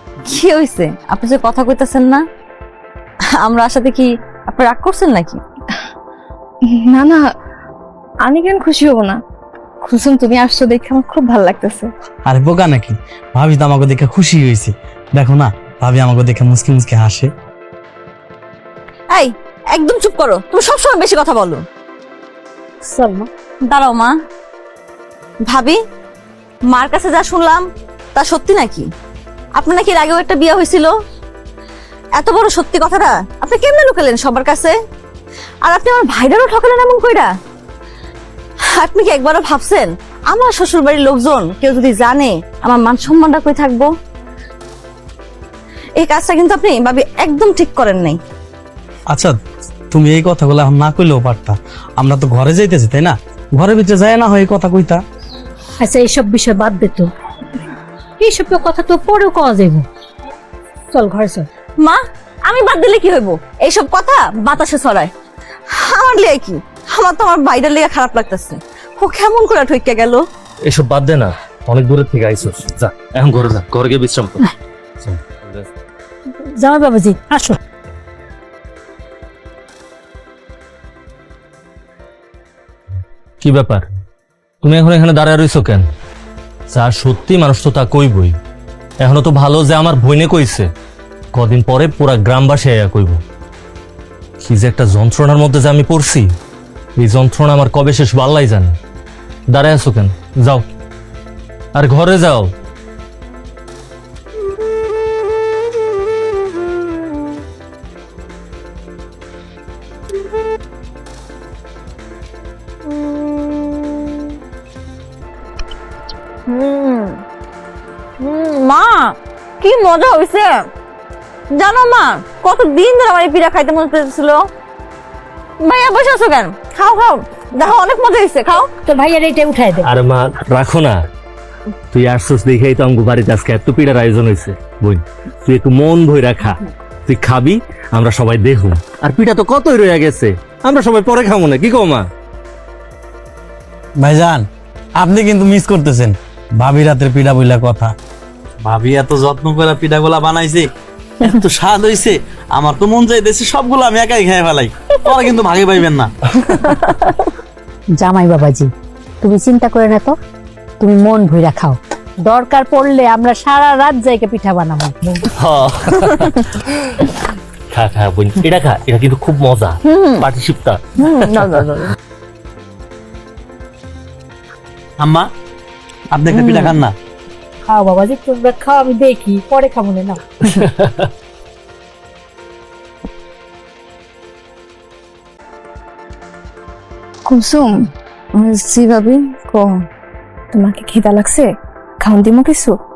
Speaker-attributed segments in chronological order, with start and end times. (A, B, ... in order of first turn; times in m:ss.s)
0:00.2-0:02.2 A
0:03.4-0:05.4 A
0:06.7-0:07.2 B
0:08.2-0:09.2 B
0:09.8-0:11.9 B
0:12.3-0:17.3 C
0:19.1-0:21.6 A
0:22.8-0:23.3 D
0:23.7-0:24.1 A
0:25.5-0:25.8 A
0:26.7-0:27.6 A
0:28.1-0:28.8 A
0:29.6-0:30.9 A
0:32.2-0:34.7 A
0:35.6-0:37.3 A
0:38.7-0:43.9 A
0:46.0-0:48.2 A
0:49.9-0:55.0 C
0:55.8-0:57.1 D
0:58.2-0:59.8 D
1:00.9-1:01.5 D
1:01.8-1:05.1 A
1:05.7-1:10.2 A
1:10.6-1:14.4 E
1:15.0-1:15.7 E
1:16.4-1:17.6 D
1:23.4-1:23.8 E
1:24.6-1:25.8 E
1:26.7-1:28.3 E
1:29.0-1:30.7 E
1:31.3-1:33.2 E
1:34.4-1:36.3 E
1:37.0-1:38.8 E
1:39.5-1:40.6 E
1:41.7-1:42.5 E
1:52.9-1:53.6 A
1:56.5-1:57.2 A
1:58.2-2:00.6 A
2:01.5-2:04.4 A
2:05.6-2:08.7 A
2:08.8-2:09.9 D
2:09.8-2:11.0 E
2:11.9-2:22.0 E
2:24.0-2:24.4 C
2:25.0-2:27.9 C
2:28.6-2:30.7 C
2:31.2-2:36.1 C
2:38.0-2:40.2 D
2:40.8-2:45.3 D
2:45.4-2:46.5 E
2:47.7-2:51.6 E
2:49.8-2:50.2 A
2:51.0-2:51.9 A
2:55.0-2:55.2 C
2:56.1-2:56.9 C
2:56.3-2:56.7 A
2:57.6-3:00.2 D
3:00.5-3:01.1 E
3:07.2-3:07.9 B
3:08.3-3:09.8 A
3:10.5-3:11.5 B
3:12.0-3:12.8 B